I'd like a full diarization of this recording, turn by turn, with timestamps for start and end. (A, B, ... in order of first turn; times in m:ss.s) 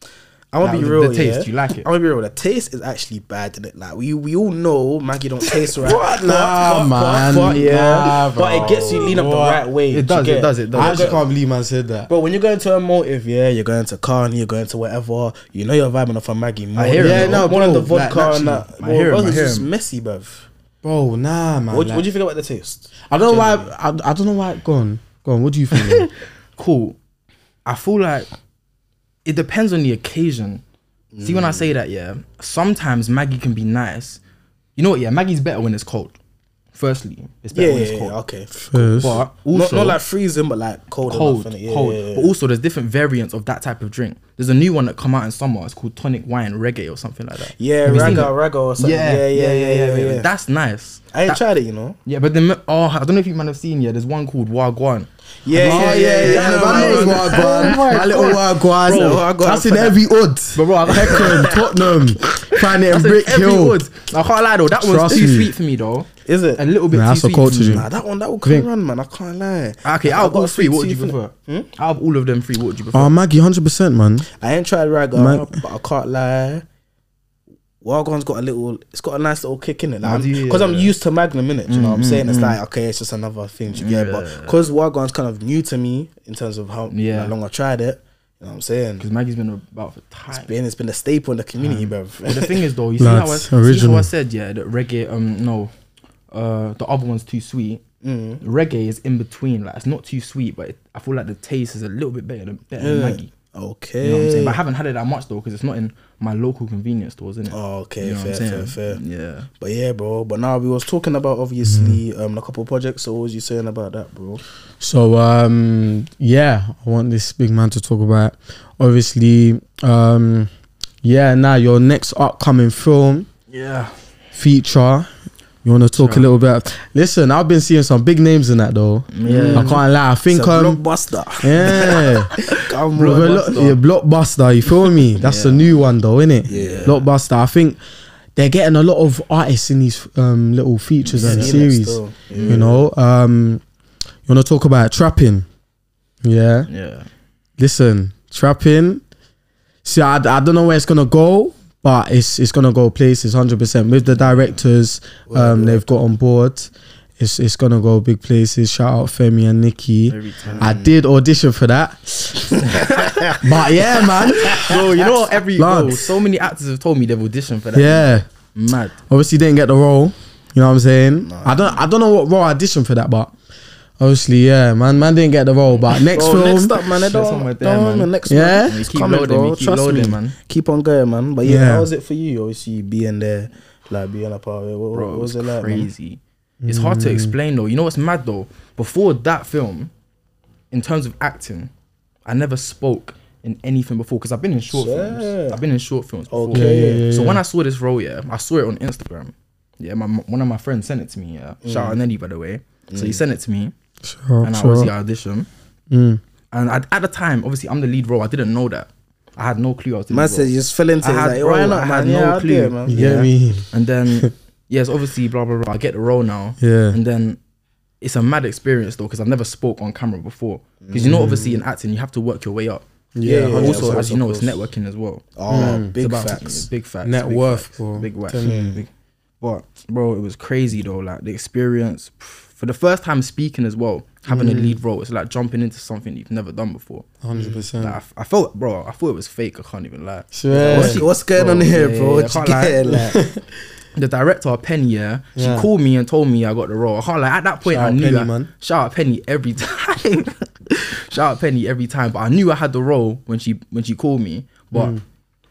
0:00.5-0:11.2 A
0:00.6-0:01.9 B
0:05.8-0:09.6 C
0:07.4-0:08.2 B
0:09.9-0:11.2 B
0:10.7-0:12.1 C
0:12.1-0:20.5 A
0:16.8-0:19.7 B
0:16.9-0:18.3 C
0:20.8-0:22.1 C
0:21.7-0:23.0 A
0:23.1-0:26.1 C
0:23.3-0:23.6 B
0:25.7-0:26.0 B
0:26.6-0:27.0 B
0:27.6-0:28.3 B
0:29.2-0:30.6 B
0:31.1-0:31.7 A
0:31.2-0:34.2 B
0:34.8-0:36.2 B
0:36.7-0:38.1 B
0:37.5-0:42.3 A
0:38.5-0:39.2 C
0:39.0-0:40.0 B
0:41.1-0:51.4 B
0:47.6-0:50.3 A
0:47.8-0:48.3 C
0:51.1-0:52.0 A
0:52.0-0:59.2 B
0:55.4-1:00.0 A
0:55.5-1:03.8 C
1:00.5-1:01.6 B
1:00.9-1:01.7 A
1:02.4-1:07.8 B
1:04.8-1:05.5 C
1:06.2-1:06.6 A
1:06.9-1:07.9 C
1:07.5-1:11.7 A
1:09.8-1:13.1 B
1:12.9-1:14.3 C
1:14.3-1:16.6 A
1:15.1-1:15.6 C
1:17.8-1:29.0 A
1:20.0-1:20.9 B
1:21.7-1:22.6 B
1:23.7-1:24.6 B
1:26.9-1:27.3 B
1:29.0-1:30.5 B
1:30.3-1:32.6 A
1:31.6-1:35.7 B
1:33.0-1:34.1 C
1:36.3-1:37.8 B
1:38.0-1:38.4 A
1:38.4-1:43.3 B
1:42.8-1:44.6 A
1:44.0-1:49.5 B
1:47.5-1:49.0 A
1:49.6-1:54.4 A
1:51.6-1:52.0 C
1:54.8-2:00.5 C
2:01.0-2:03.3 C
2:03.5-2:04.0 B
2:04.3-2:05.1 C
2:05.6-2:10.8 C
2:05.9-2:06.3 B
2:09.1-2:09.8 B
2:09.2-2:13.5 A
2:11.4-2:12.4 C
2:11.6-2:13.8 B
2:13.0-2:17.8 C
2:15.1-2:15.8 B
2:16.5-2:16.9 A
2:16.5-2:17.0 B
2:18.4-2:23.6 C
2:21.1-2:21.7 B
2:21.1-2:22.8 A
2:22.3-2:22.6 B
2:24.3-2:25.4 C
2:26.2-2:26.7 C
2:26.7-2:27.1 B
2:27.6-2:29.0 C
2:29.8-2:42.5 C
2:35.3-2:35.8 A
2:40.1-2:40.7 B
2:40.5-2:41.0 A
2:42.5-2:45.0 A
2:42.6-2:43.4 B
2:43.4-2:45.0 C
2:44.0-2:49.0 B
2:45.5-2:46.0 C
2:47.7-2:48.2 C
2:49.1-2:53.3 C
2:51.2-2:51.8 A
2:54.0-2:56.8 C
2:56.0-3:05.9 A
2:56.9-3:00.3 B
2:58.2-2:58.8 C
3:01.4-3:01.9 C
3:04.9-3:09.9 B
3:06.6-3:07.3 C
3:10.7-3:11.7 B
3:12.2-3:23.7 B
3:14.7-3:15.6 A
3:16.3-3:17.1 A
3:16.5-3:17.4 C
3:21.6-3:22.0 A
3:22.9-3:23.2 A
3:24.0-3:24.9 C
3:24.4-3:25.5 B
3:25.9-3:26.2 C
3:26.5-3:37.4 B
3:30.1-3:33.3 A
3:32.9-3:34.3 C
3:36.6-3:37.0 C
3:38.0-3:42.9 B
3:40.8-3:41.4 A
3:41.0-3:41.6 C
3:43.1-3:44.1 C
3:43.2-3:44.6 A
3:43.5-3:48.9 B
3:45.4-3:46.7 A
3:45.5-3:45.9 C
3:47.0-3:48.7 C
3:48.4-3:48.8 A
3:49.4-3:57.1 B
3:54.3-3:54.8 C
3:57.2-3:58.0 C
3:57.8-4:02.9 B
4:00.3-4:01.0 C
4:00.5-4:03.2 A
4:02.9-4:03.4 C
4:03.9-4:15.0 B
4:05.3-4:05.7 C
4:07.6-4:08.5 C
4:14.7-4:15.0 C